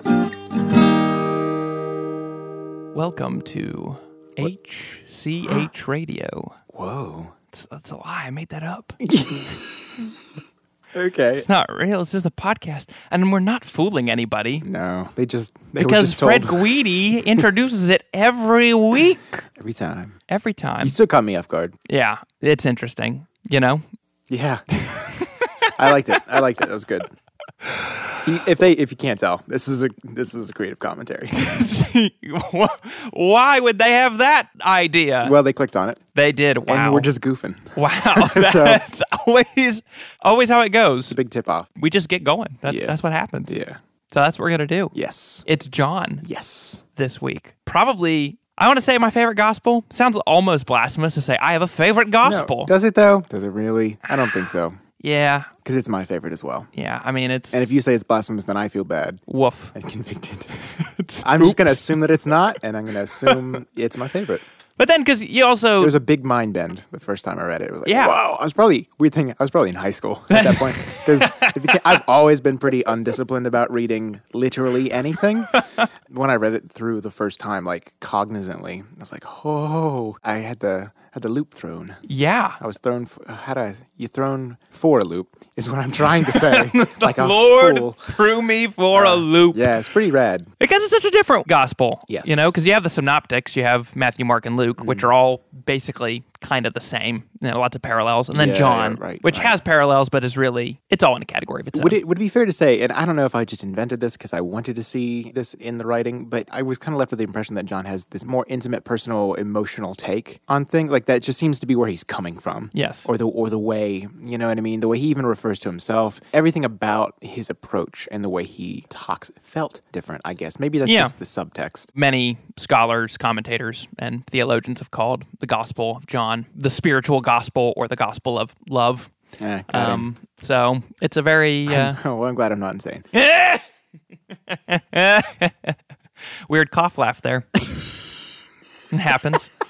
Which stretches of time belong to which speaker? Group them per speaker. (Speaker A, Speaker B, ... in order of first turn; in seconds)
Speaker A: 2.9-6.6, 7.5-9.0, 11.3-14.7, 15.8-19.4, 20.3-20.9, 21.9-23.8, 31.3-35.3, 36.1-37.1, 37.8-41.1, 41.8-43.6, 44.1-44.9, 45.5-46.2, 46.9-52.7, 55.0-55.5, 56.7-57.7, 59.3-59.7, 60.8-62.0, 64.8-66.0, 67.8-68.1, 70.3-72.0, 75.5-75.8, 82.0-82.6, 86.0-89.8, 90.6-102.0, 112.7-113.1, 120.8-121.1, 121.9-129.1, 129.7-132.0, 133.1-133.6, 134.5-135.8, 136.5-137.5, 138.9-139.5
Speaker B: 6.7-7.3, 9.0-10.1, 10.9-11.5, 14.6-16.7, 19.5-20.2, 20.8-21.8, 24.3-25.0, 25.7-27.1, 28.2-31.6, 35.2-36.0, 36.6-38.8, 41.1-41.7, 42.6-42.9, 43.5-43.8, 44.9-45.5, 46.2-46.8, 52.2-54.8, 55.6-56.7, 57.5-59.2, 59.7-64.4, 65.8-82.0, 82.6-88.1, 88.9-90.5, 92.1-92.5, 94.8-95.0, 98.3-99.6, 101.7-121.9, 129.4-130.1, 131.7-133.1